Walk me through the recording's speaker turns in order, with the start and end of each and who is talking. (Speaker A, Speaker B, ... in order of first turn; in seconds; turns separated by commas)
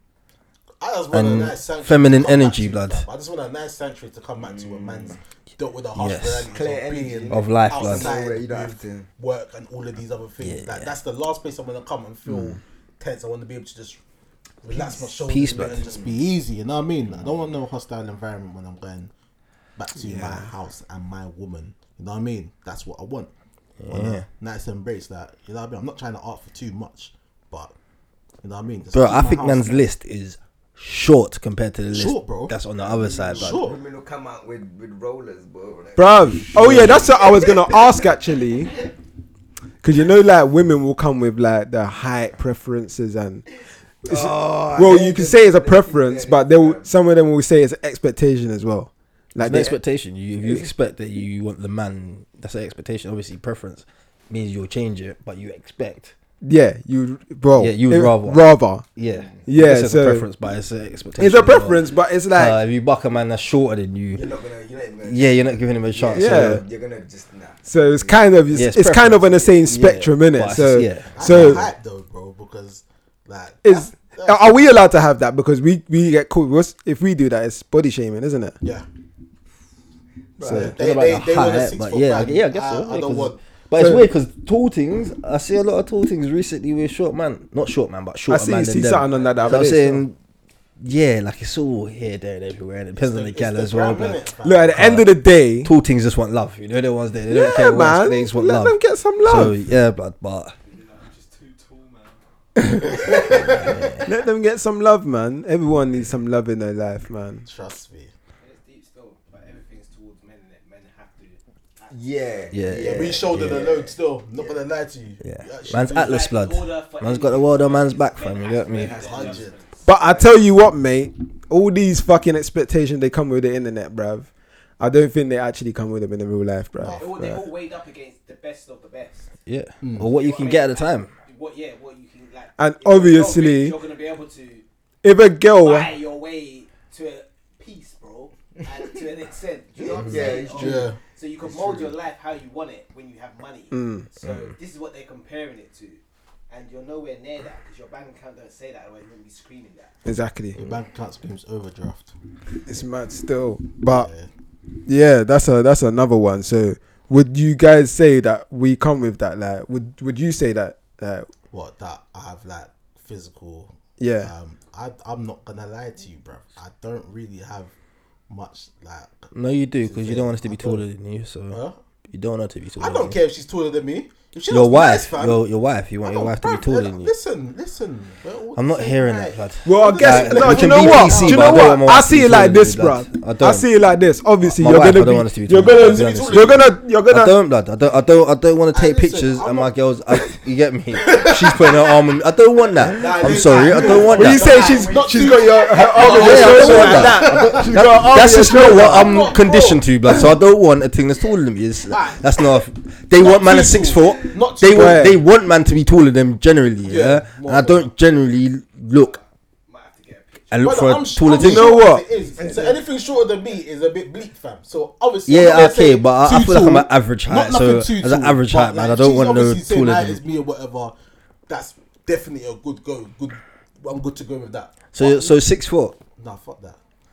Speaker A: 0.8-14.0, Speaker B: 1.1-3.0, Speaker C: 4.4-5.2, Speaker B: 5.9-6.5, Speaker C: 6.5-9.1, Speaker B: 7.3-8.2, Speaker B: 10.4-10.9, Speaker A: 14.6-19.1, Speaker B: 14.7-15.9, Speaker C: 15.6-16.2, Speaker A: 19.8-23.3, Speaker D: 20.0-20.5, Speaker B: 23.8-24.2, Speaker A: 23.9-27.7, Speaker A: 28.4-29.9, Speaker B: 28.9-33.6, Speaker A: 31.9-32.5, Speaker C: 32.8-37.6, Speaker A: 33.4-33.8, Speaker D: 36.0-38.8, Speaker B: 36.5-37.0, Speaker D: 39.8-43.4, Speaker D: 44.0-49.7, Speaker C: 44.0-46.9, Speaker B: 49.4-56.1, Speaker C: 49.5-49.8, Speaker D: 56.4-58.9, Speaker B: 57.6-61.8, Speaker C: 59.1-59.4, Speaker D: 59.5-60.2, Speaker D: 61.2-62.6, Speaker B: 62.3-64.3, Speaker C: 64.1-68.4, Speaker B: 65.0-66.6, Speaker D: 66.1-66.6, Speaker D: 67.6-71.7, Speaker B: 68.5-71.7, Speaker A: 71.1-74.7, Speaker D: 73.6-78.5, Speaker A: 78.6-78.8, Speaker C: 80.4-80.7, Speaker D: 80.4-80.7, Speaker A: 80.4-83.4, Speaker B: 80.4-90.2, Speaker D: 83.8-84.1, Speaker D: 88.3-90.0, Speaker E: 89.1-89.6, Speaker B: 90.8-94.2, Speaker A: 92.9-95.0, Speaker D: 94.4-95.7, Speaker B: 94.7-100.5, Speaker D: 97.3-99.5, Speaker E: 100.6-102.2, Speaker D: 102.5-103.1, Speaker A: 102.8-104.0, Speaker E: 103.2-103.9, Speaker B: 103.3-104.0, Speaker D: 104.0-107.5, Speaker A: 107.4-108.1, Speaker E: 108.4-112.2, Speaker C: 111.9-114.6, Speaker B: 112.5-113.7, Speaker A: 112.7-116.2, Speaker B: 115.2-119.2, Speaker E: 115.8-119.8, Speaker C: 118.7-120.3, Speaker A: 118.9-119.5, Speaker D: 119.8-124.3, Speaker D: 124.8-127.4, Speaker A: 126.8-127.1, Speaker E: 126.9-129.3, Speaker B: 129.4-131.1, Speaker A: 129.8-130.1, Speaker E: 130.0-134.6, Speaker D: 132.6-133.8, Speaker D: 135.0-135.9, Speaker E: 135.6-149.9, Speaker C: 138.7-139.0, Speaker C: 139.7-141.9, Speaker A: 140.2-141.0, Speaker D: 143.7-144.1, Speaker D: 150.0-150.6, Speaker A: 150.5-152.1, Speaker D: 152.7-154.1, Speaker A: 153.8-154.3, Speaker D: 154.8-161.3, Speaker A: 161.5-167.7, Speaker D: 164.0-164.3, Speaker A: 168.3-169.3, Speaker B: 169.3-171.6, Speaker A: 169.8-170.8, Speaker A: 171.5-171.8, Speaker B: 172.1-173.2, Speaker A: 172.8-175.4, Speaker B: 174.5-177.1, Speaker A: 176.0-181.8, Speaker B: 178.5-183.7, Speaker D: 179.6-187.4, Speaker B: 184.4-194.5, Speaker A: 185.5-186.8, Speaker A: 188.7-190.3, Speaker A: 190.9-191.9, Speaker A: 192.8-199.9, Speaker E: 193.3-196.3, Speaker D: 194.0-199.3, Speaker B: 196.0-209.2, Speaker A: 201.9-202.3, Speaker A: 203.1-205.2, Speaker D: 204.7-205.2, Speaker A: 206.8-207.9, Speaker E: 208.9-210.7, Speaker B: 210.5-211.8, Speaker A: 210.6-220.9, Speaker D: 211.3-212.0, Speaker C: 212.4-212.8, Speaker B: 215.3-220.2, Speaker A: 221.5-225.4, Speaker B: 224.9-225.9, Speaker A: 226.2-226.8